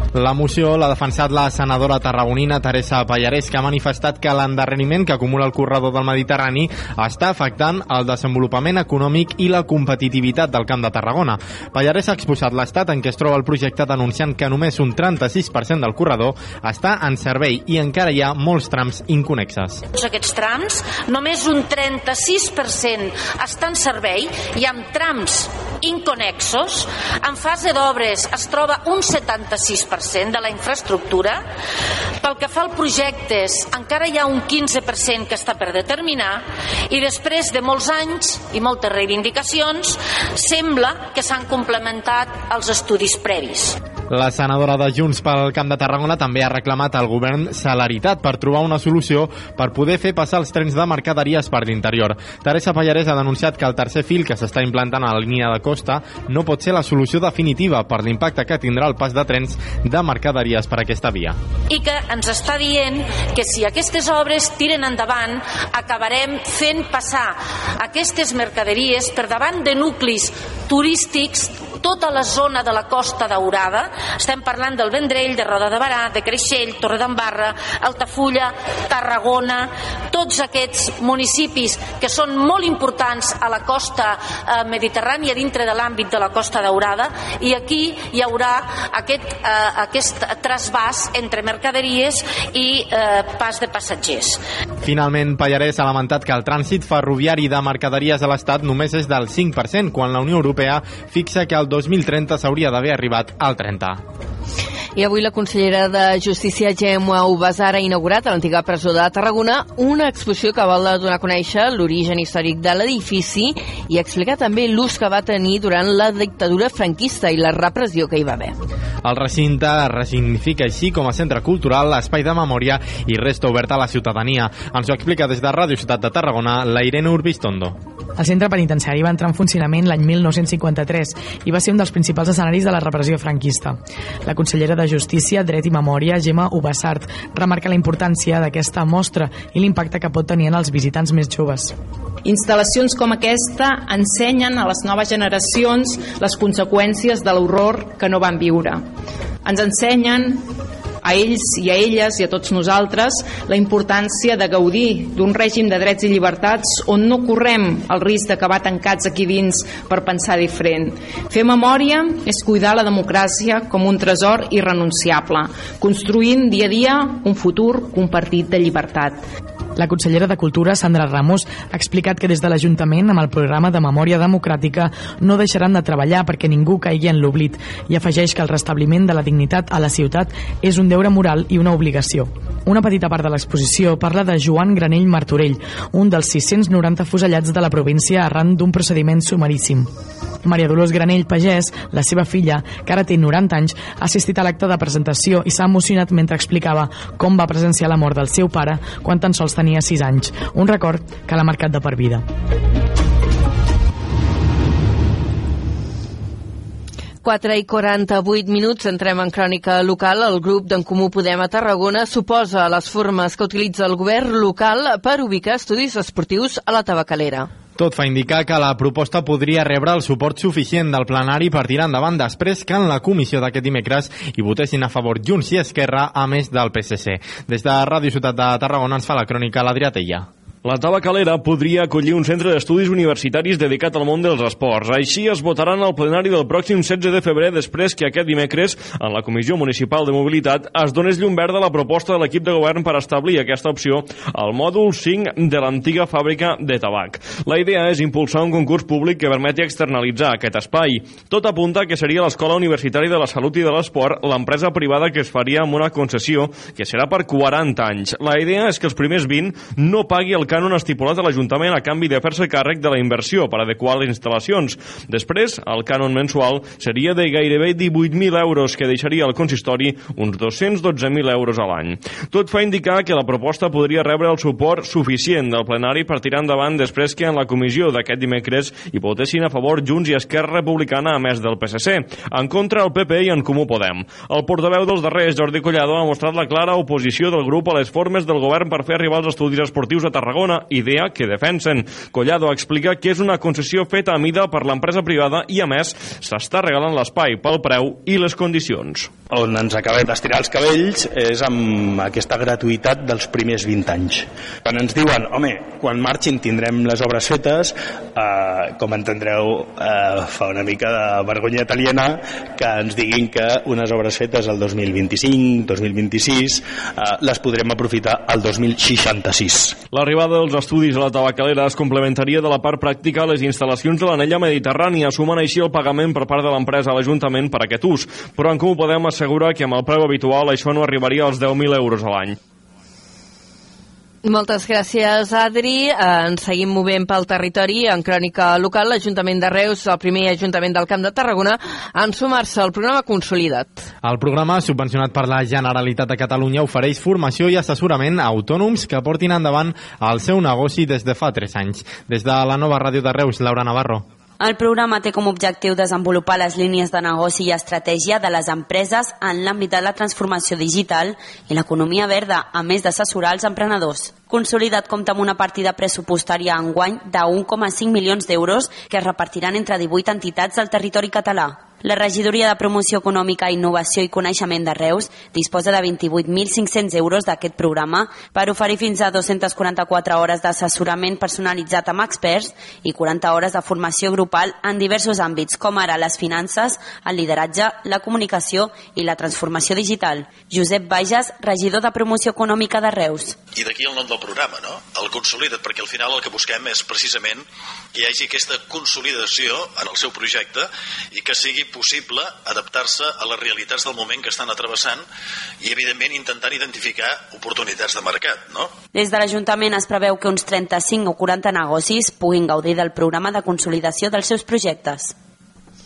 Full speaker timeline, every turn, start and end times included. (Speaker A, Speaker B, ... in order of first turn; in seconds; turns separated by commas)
Speaker A: 0.1-19.8, Speaker B: 19.9-31.4, Speaker B: 32.2-43.8, Speaker A: 44.1-61.4, Speaker B: 61.7-94.4, Speaker A: 94.8-104.0, Speaker C: 105.0-118.5, Speaker A: 119.0-127.8, Speaker D: 128.2-141.7, Speaker E: 142.2-148.8, Speaker E: 149.4-169.2, Speaker D: 169.8-189.9, Speaker D: 190.4-202.2, Speaker C: 207.2-217.5, Speaker A: 217.8-230.3, Speaker F: 230.6-299.1, Speaker G: 299.3-319.7, Speaker F: 319.9-332.4, Speaker C: 334.2-343.8, Speaker A: 344.0-354.0, Speaker H: 354.4-393.4, Speaker I: 393.5-405.0, Speaker I: 405.6-408.7, Speaker H: 408.9-415.1